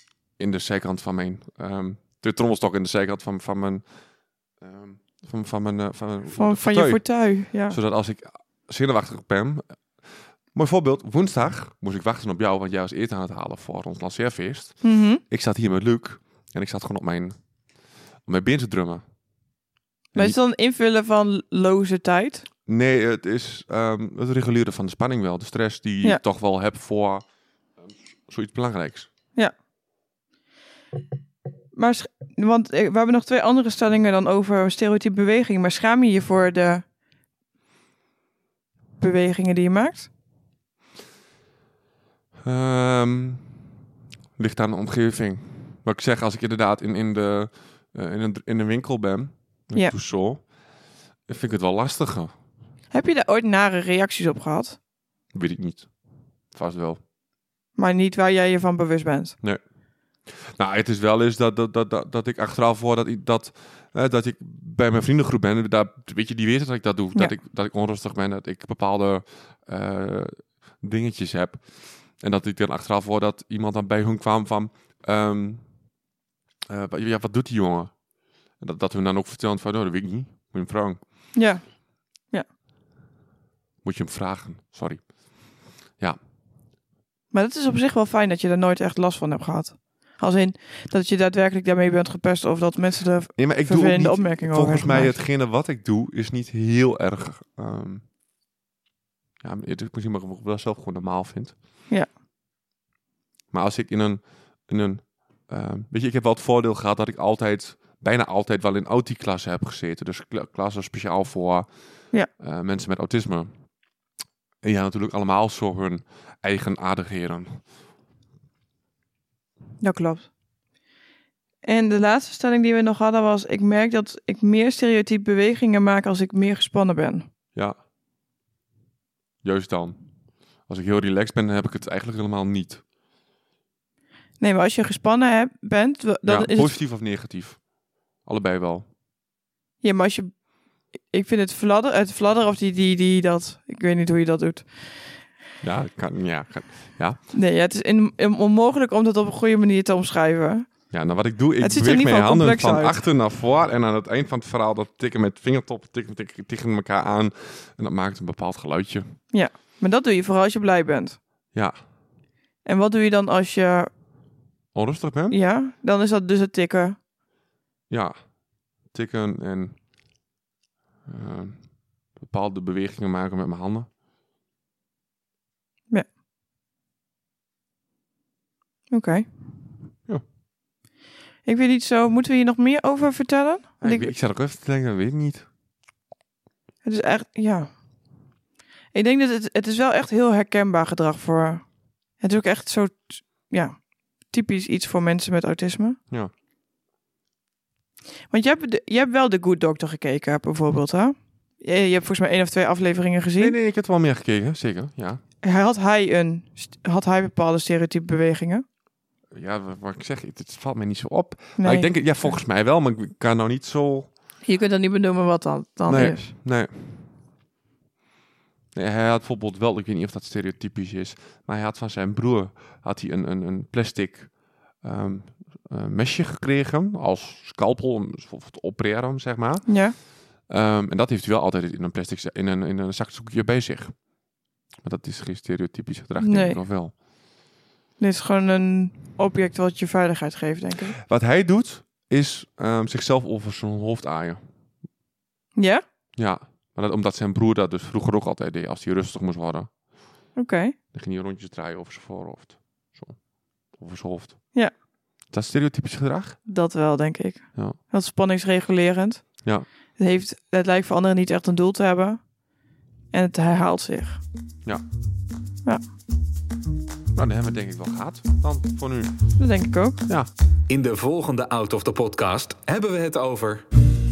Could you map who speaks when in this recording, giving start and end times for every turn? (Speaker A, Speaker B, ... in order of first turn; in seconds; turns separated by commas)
Speaker A: 0.4-3.8, Speaker A: 4.6-7.0, Speaker B: 6.3-7.8, Speaker A: 7.7-9.8, Speaker A: 10.5-14.8, Speaker B: 14.8-15.2, Speaker A: 15.3-17.4, Speaker A: 18.3-19.0, Speaker B: 20.1-22.4, Speaker A: 22.7-27.2, Speaker A: 28.3-29.1, Speaker B: 31.7-36.8, Speaker B: 39.0-40.1, Speaker A: 42.5-43.6, Speaker A: 44.4-50.4, Speaker A: 51.3-52.3, Speaker B: 52.9-54.8, Speaker A: 55.3-55.9, Speaker A: 56.5-57.0, Speaker B: 57.8-59.4, Speaker A: 60.6-71.6, Speaker A: 72.2-75.6, Speaker A: 76.7-77.9, Speaker A: 78.6-81.0, Speaker B: 81.3-81.6, Speaker A: 83.8-85.1, Speaker B: 87.3-95.2, Speaker A: 93.4-98.0, Speaker A: 99.4-101.5, Speaker A: 103.5-111.7, Speaker A: 112.4-113.5, Speaker A: 114.6-117.6, Speaker B: 119.8-120.3, Speaker B: 121.6-127.3, Speaker A: 129.4-130.0, Speaker A: 130.7-132.8, Speaker B: 134.4-136.8, Speaker A: 136.2-137.6, Speaker A: 138.2-138.9, Speaker B: 139.8-140.3, Speaker B: 141.1-144.7, Speaker A: 145.6-147.2, Speaker B: 147.3-150.7, Speaker A: 150.9-159.2, Speaker B: 151.6-153.0, Speaker B: 159.3-161.2, Speaker B: 162.7-163.9, Speaker A: 164.8-165.4, Speaker B: 165.3-167.0, Speaker A: 167.9-168.2, Speaker A: 168.9-169.8, Speaker A: 171.1-173.9, Speaker B: 178.9-179.3, Speaker B: 181.4-184.1, Speaker A: 183.8-185.5, Speaker B: 186.8-187.7, Speaker B: 188.9-191.6, Speaker B: 192.2-193.8, Speaker B: 194.3-196.0, Speaker B: 198.3-203.5, Speaker A: 203.4-205.2, Speaker B: 205.4-208.6, Speaker A: 209.3-214.1, Speaker B: 211.6-212.3, Speaker B: 214.4-216.3, Speaker A: 215.9-217.0, Speaker A: 218.8-229.7, Speaker B: 229.7-229.9, Speaker A: 230.5-234.0, Speaker A: 234.8-236.9, Speaker B: 236.2-236.6, Speaker B: 238.0-240.9, Speaker A: 241.1-244.4, Speaker B: 245.6-245.8, Speaker A: 246.2-249.7, Speaker B: 250.4-250.8, Speaker A: 250.9-253.2, Speaker A: 253.8-254.4, Speaker A: 255.3-256.4, Speaker B: 256.5-259.2, Speaker B: 260.0-262.2, Speaker B: 263.1-264.2, Speaker A: 267.1-269.1, Speaker B: 269.4-270.0, Speaker C: 270.7-273.7